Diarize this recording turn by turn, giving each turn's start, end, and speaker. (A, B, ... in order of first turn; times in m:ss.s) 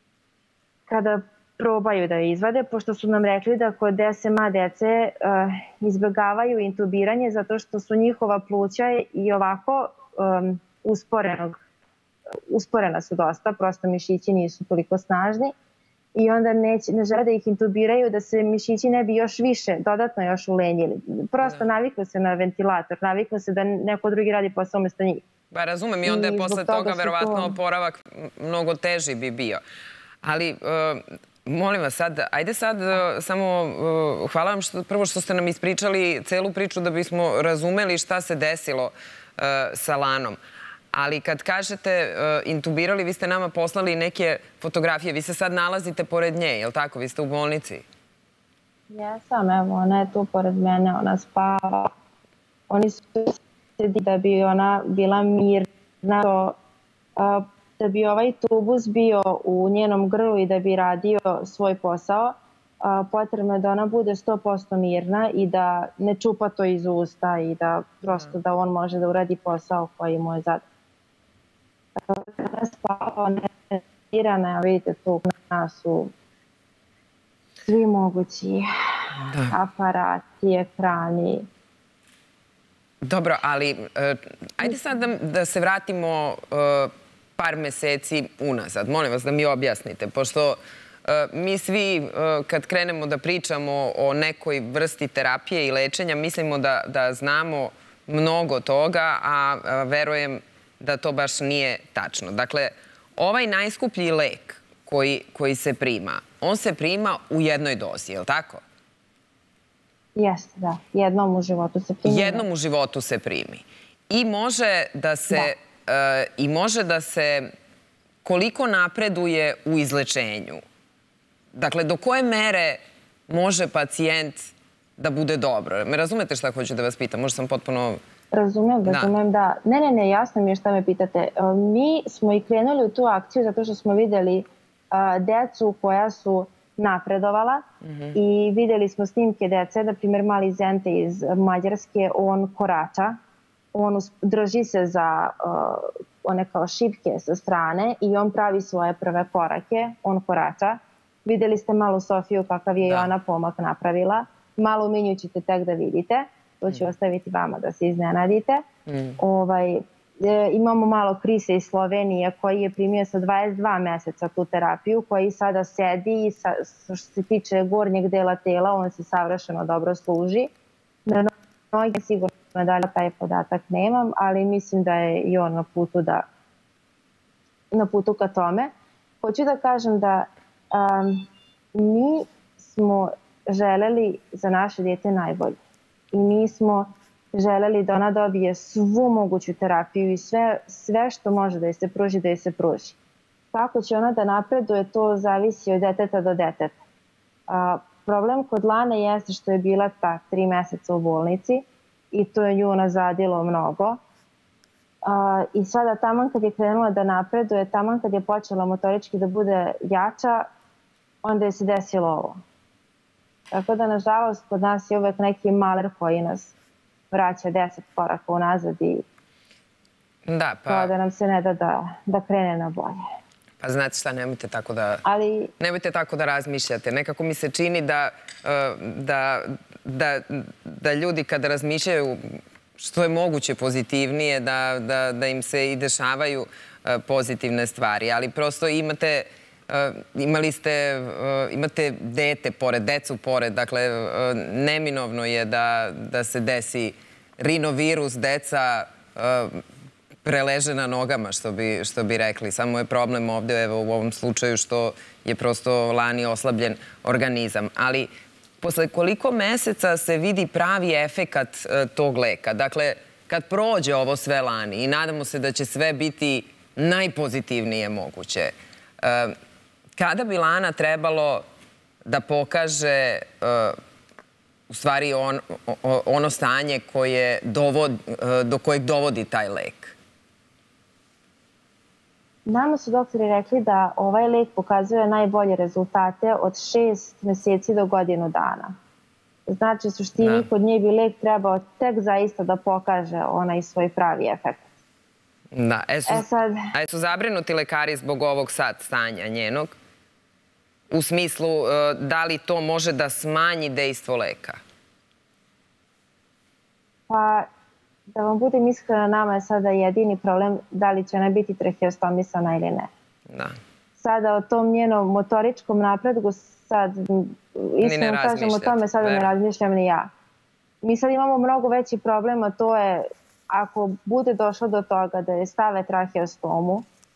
0:00.9-0:11.6 A
0:12.5-0:15.5 A
0:16.1-0:25.2 A
0:25.5-0:29.6 B
0:26.0-0:27.5 A
0:30.2-0:40.4 B
0:40.9-0:47.8 B
0:48.9-0:51.9 A
0:52.7-0:56.6 A
0:57.2-1:10.6 A
1:12.0-1:16.1 A
1:17.6-1:18.6 A
1:19.2-1:19.5 B
1:19.3-1:21.5 A
1:23.0-1:48.6 B
1:50.2-1:52.4 A
1:52.0-1:57.5 B
1:58.2-2:00.6 B
2:01.5-2:08.0 B
2:08.3-2:23.1 A
2:08.8-2:09.1 B
2:17.8-2:18.1 B
2:23.7-2:38.6 A
2:32.8-2:33.1 B
2:38.9-2:39.2 B
2:39.2-2:50.5 A
2:51.0-2:56.2 A
2:57.7-2:58.7 A
2:59.2-3:05.6 A
3:06.1-3:13.0 A
3:13.5-3:16.7 A
3:17.5-3:24.0 A
3:25.0-3:30.5 A
3:31.2-3:32.4 A
3:33.5-3:36.5 A
3:37.1-3:39.0 A
3:40.2-3:40.9 B
3:40.7-3:43.0 A
3:43.6-3:45.0 B
3:45.0-3:45.5 A
3:45.6-4:09.6 B
4:10.2-4:29.3 B
4:30.0-4:31.4 B
4:32.0-4:33.8 B
4:34.7-4:40.0 B
4:42.4-4:48.7 A
4:49.4-4:54.7 A
4:50.2-4:50.5 B
4:55.5-4:59.7 B
4:56.1-4:56.7 A
5:00.9-5:04.6 B
5:07.1-5:07.5 A
5:08.1-5:12.9 A
5:13.3-5:13.5 B
5:14.0-5:20.1 A
5:17.8-5:19.3 B
5:20.8-5:26.9 A